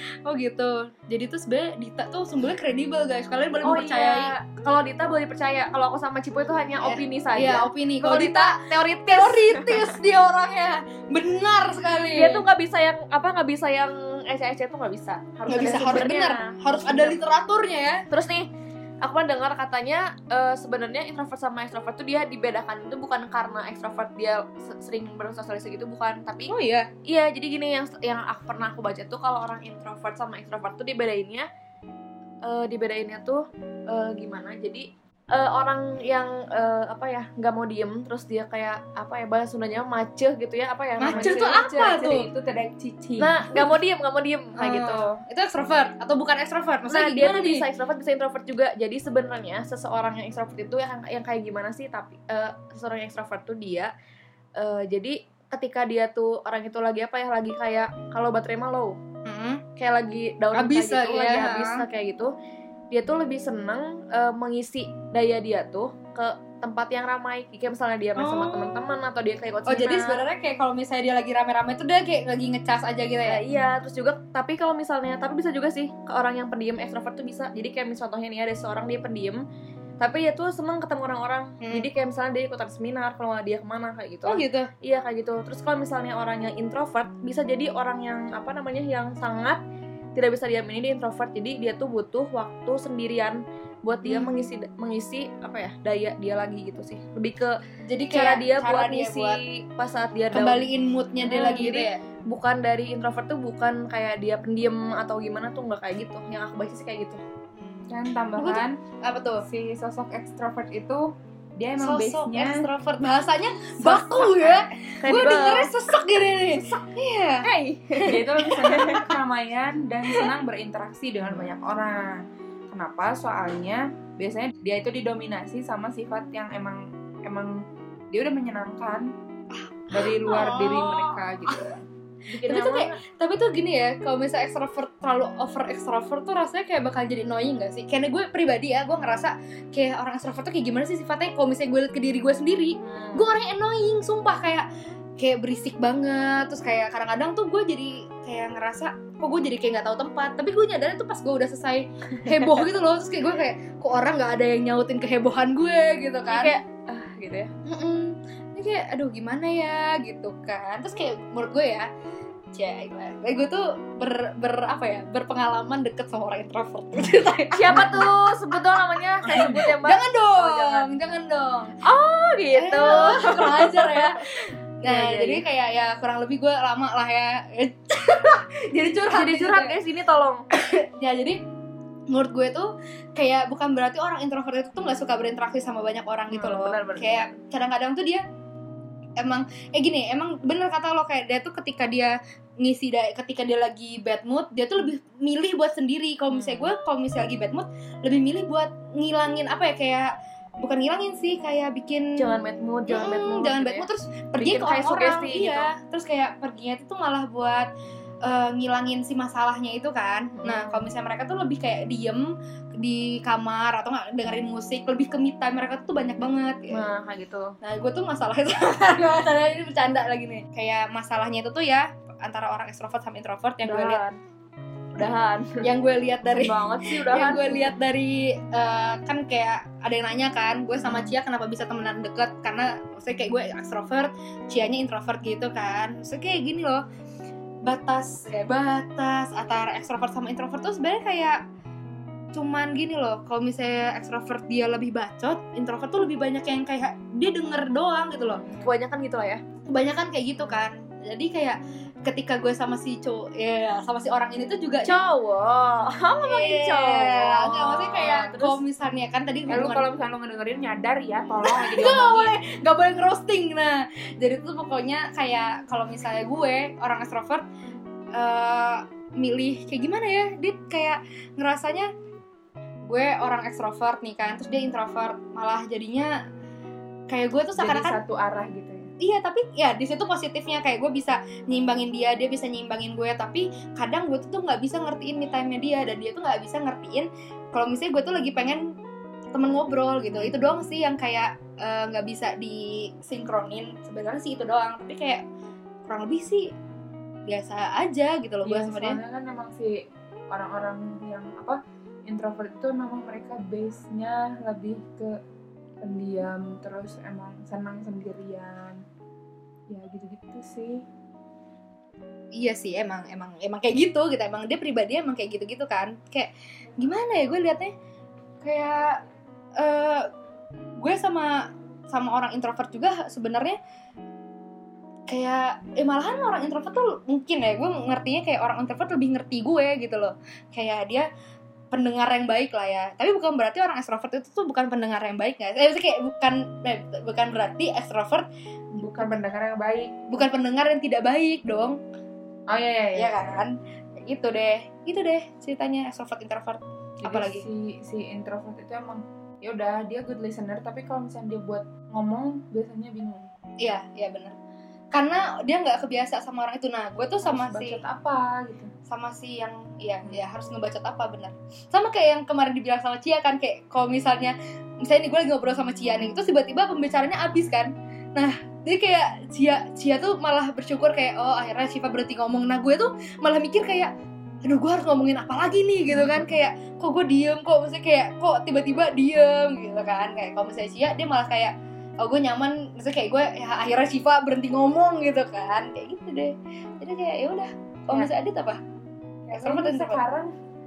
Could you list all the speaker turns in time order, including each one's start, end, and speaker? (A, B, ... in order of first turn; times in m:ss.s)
0:00.2-0:04.3 A
0:03.6-0:10.0 B
0:06.8-0:12.4 A
0:12.1-0:17.2 B
0:15.5-0:18.0 A
0:18.1-0:18.5 B
0:19.0-0:26.5 B
0:26.5-0:26.9 A
0:27.0-0:31.5 B
0:32.4-0:42.0 B
0:41.0-0:42.3 A
0:41.1-0:43.4 C
0:43.2-0:45.1 B
0:43.5-0:43.8 A
0:44.6-0:47.6 A
0:46.9-0:53.9 B
0:54.6-0:59.0 B
0:59.2-0:59.6 A
0:59.8-1:02.3 B
1:00.5-1:01.8 A
1:02.9-1:10.2 B
1:08.2-1:08.9 A
1:09.7-1:13.4 A
1:13.2-1:19.4 B
1:20.0-1:29.6 B
1:21.6-1:21.9 A
1:24.2-1:24.7 A
1:30.1-1:37.6 B
1:34.0-1:34.4 A
1:37.9-1:39.4 A
1:38.1-1:40.7 B
1:40.3-1:42.0 A
1:41.2-1:47.2 B
1:47.5-1:49.4 A
1:47.9-1:48.8 C
1:49.4-1:52.7 C
1:51.8-1:59.1 A
1:53.8-1:54.6 C
1:55.0-1:55.7 B
1:57.4-1:58.2 B
1:58.0-2:09.1 C
2:09.5-2:11.7 A
2:09.9-2:13.0 C
2:12.4-2:24.6 A
2:22.8-2:23.2 B
2:25.2-2:36.5 A
2:32.3-2:32.6 B
2:36.3-2:37.5 B
2:37.6-2:41.9 A
2:42.5-2:48.2 A
2:47.6-2:50.9 B
2:49.2-2:51.8 A
2:51.8-2:55.4 B
2:52.5-2:59.7 A
2:59.1-3:00.4 B
3:00.5-3:01.4 A
3:02.1-3:08.2 A
3:06.3-3:07.3 B
3:09.2-3:22.2 A
3:16.3-3:16.7 B
3:22.2-3:25.7 B
3:22.9-3:27.7 A
3:28.2-3:36.9 A
3:30.4-3:30.8 B
3:36.7-3:37.6 B
3:37.6-3:44.0 A
3:43.6-3:44.2 B
3:44.9-3:45.6 B
3:45.6-3:56.8 A
3:46.3-3:47.7 B
3:50.8-3:51.1 B
3:57.6-4:01.4 A
4:02.3-4:08.4 A
4:08.4-4:08.7 C
4:08.6-4:09.4 B
4:09.7-4:15.0 A
4:14.8-4:18.6 B
4:16.2-4:19.8 A
4:19.5-4:22.3 C
4:21.4-4:27.4 A
4:28.1-4:31.9 A
4:32.9-4:36.1 A
4:37.1-4:38.0 A
4:37.6-4:38.9 C
4:39.0-4:48.7 A
4:49.3-4:55.2 A
4:50.2-4:50.6 C
4:55.8-4:56.5 A
4:57.3-4:59.0 A
4:58.4-5:05.2 C
5:05.8-5:08.8 C
5:09.7-5:10.8 C
5:12.4-5:17.7 A
5:18.4-5:19.0 A
5:19.6-5:20.1 A
5:20.8-5:23.6 A
5:25.1-5:31.0 A
5:31.7-5:39.2 A
5:38.8-5:40.0 C
5:40.1-5:41.8 A
5:42.5-5:43.4 C
5:42.9-5:47.4 A
5:47.0-5:53.3 C
5:53.6-5:54.4 A
5:54.9-5:57.8 A
5:57.2-5:58.7 C
5:58.9-6:13.9 A
6:14.4-6:28.6 A
6:15.9-6:16.3 C
6:29.2-6:30.3 C
6:29.3-6:30.0 A